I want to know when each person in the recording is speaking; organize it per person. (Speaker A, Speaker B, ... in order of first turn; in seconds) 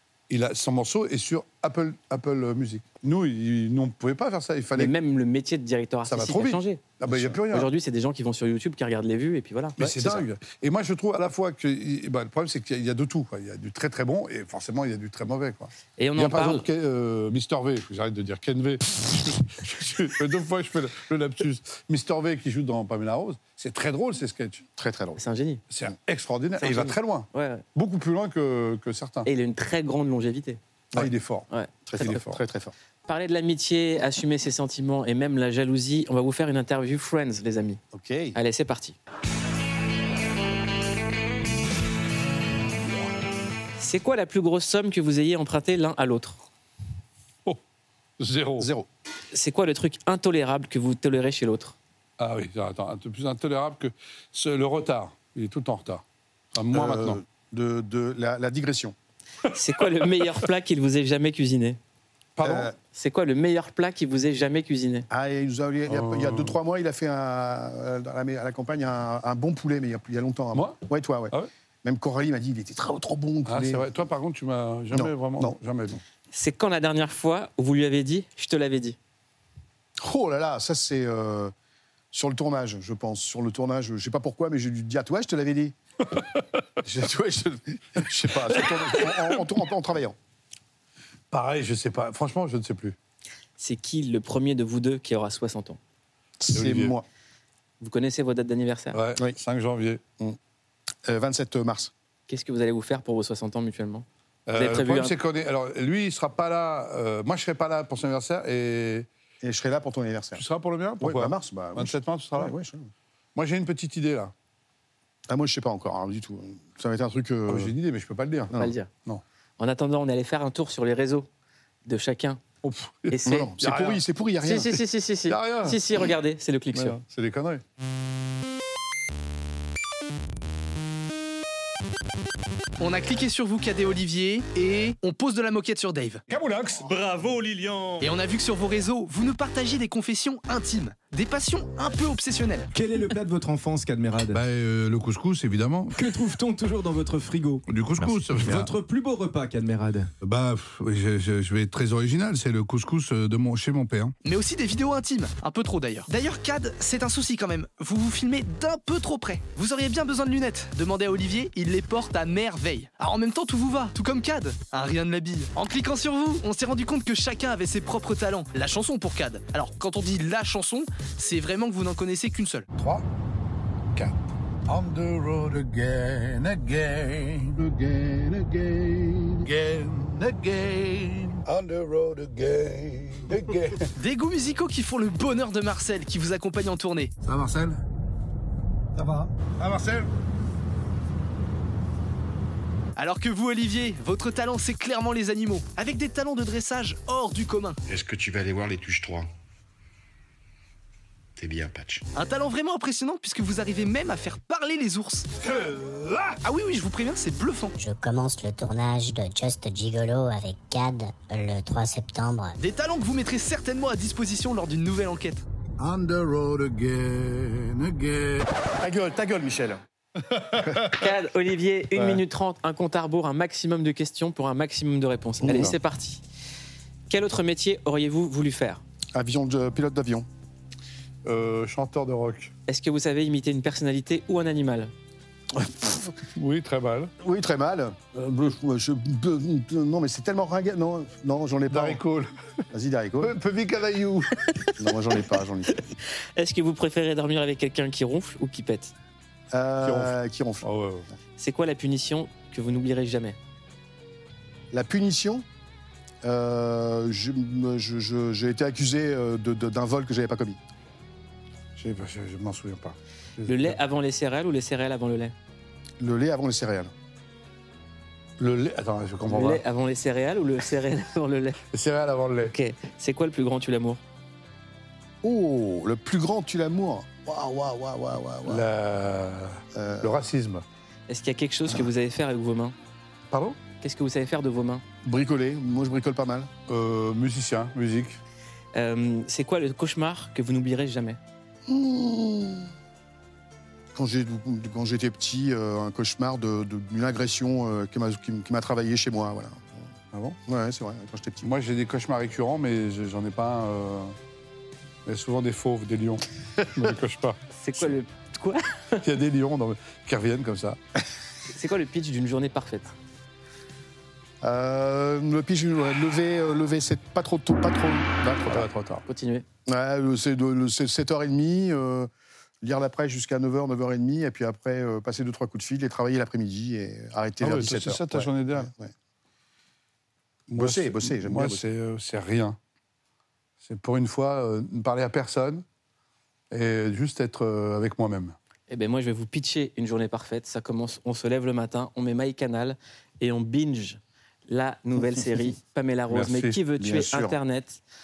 Speaker A: 0.3-4.9, 6.0-7.7, 9.8-24.6, 25.7-29.3, 30.9-31.5, 32.0-32.4, 48.2-48.7, 52.2-56.0, 56.5-57.2, 62.4-62.7, 65.9-66.5, 73.5-76.0, 91.3-93.0, 96.5-96.9, 98.9-100.0, 104.5-109.1, 110.3-112.5, 113.3-114.3, 117.5-118.5, 122.6-124.0, 125.3-125.8, 126.7-127.6, 136.3-138.0, 144.3-146.1, 147.7-148.7, 150.2-154.1, 172.8-173.0, 173.9-183.9, 187.2-187.8, 188.9-190.1, 205.4-206.4, 215.8-218.5, 220.3-221.0, 231.2-232.5, 236.3-237.1, 241.7-242.3, 243.2-244.3, 249.8-251.1, 261.8-263.8, 268.4-269.6, 271.7-272.5, 278.5-280.6, 283.3-283.6, 286.7-288.2, 301.4-304.1, 305.1-307.4, 309.0-310.8, 318.5-319.0, 327.4-328.7, 330.5-332.6, 333.6-335.6, 336.5-338.4, 346.1-346.6
Speaker B: 4.8-6.8, 7.5-9.8, 16.0-16.6, 25.2-25.6, 26.6-27.6, 29.2-30.6, 31.5-32.2, 33.1-37.8, 38.3-39.0, 43.8-46.4, 49.3-51.8, 59.5-61.8, 62.9-65.1, 76.3-79.0, 93.6-95.8, 97.8-99.0, 102.3-105.1, 118.5-118.9, 119.6-121.3, 121.8-122.4, 123.1-123.5, 124.4-127.0, 220.9-226.2, 227.1-228.8, 232.7-234.9, 246.3-248.9, 251.4-253.4, 263.4-265.3, 269.2-271.6, 272.4-274.0, 281.1-282.7, 283.8-284.8, 288.7-291.2, 307.5-309.0, 311.5-312.9, 319.1-319.4, 338.7-347.8
Speaker C: 7.0-7.3, 9.8-10.3, 24.8-25.2, 31.9-32.7, 37.9-38.4, 48.6-48.9, 56.7-58.9, 62.4-62.7, 65.1-73.8, 74.9-75.5, 80.0-81.5, 82.1-85.8, 86.8-90.2, 96.4-97.0, 101.0-101.9, 109.4-110.4, 111.0-112.9, 115.3-117.7, 123.2-124.8, 218.8-219.8, 225.4-225.7, 229.1-230.3, 235.6-236.0, 237.2-242.0, 242.7-243.3, 244.8-245.8, 249.5-250.6, 254.7-255.4, 256.2-260.6, 266.0-266.9, 275.2-278.7, 279.7-280.1, 285.0-286.5, 291.7-292.7, 293.9-299.8, 300.4-301.5, 314.4-318.7, 319.6-322.1, 322.6-328.9, 330.5-331.6, 346.8-347.4
Speaker D: 132.8-136.2, 138.0-142.7, 154.2-172.7, 184.0-187.1, 192.9-197.8, 202.1-205.3, 206.4-207.7, 212.6-215.4
Speaker E: 142.7-144.4, 145.9-150.1
Speaker F: 197.9-199.3, 201.4-202.0
Speaker G: 207.8-212.5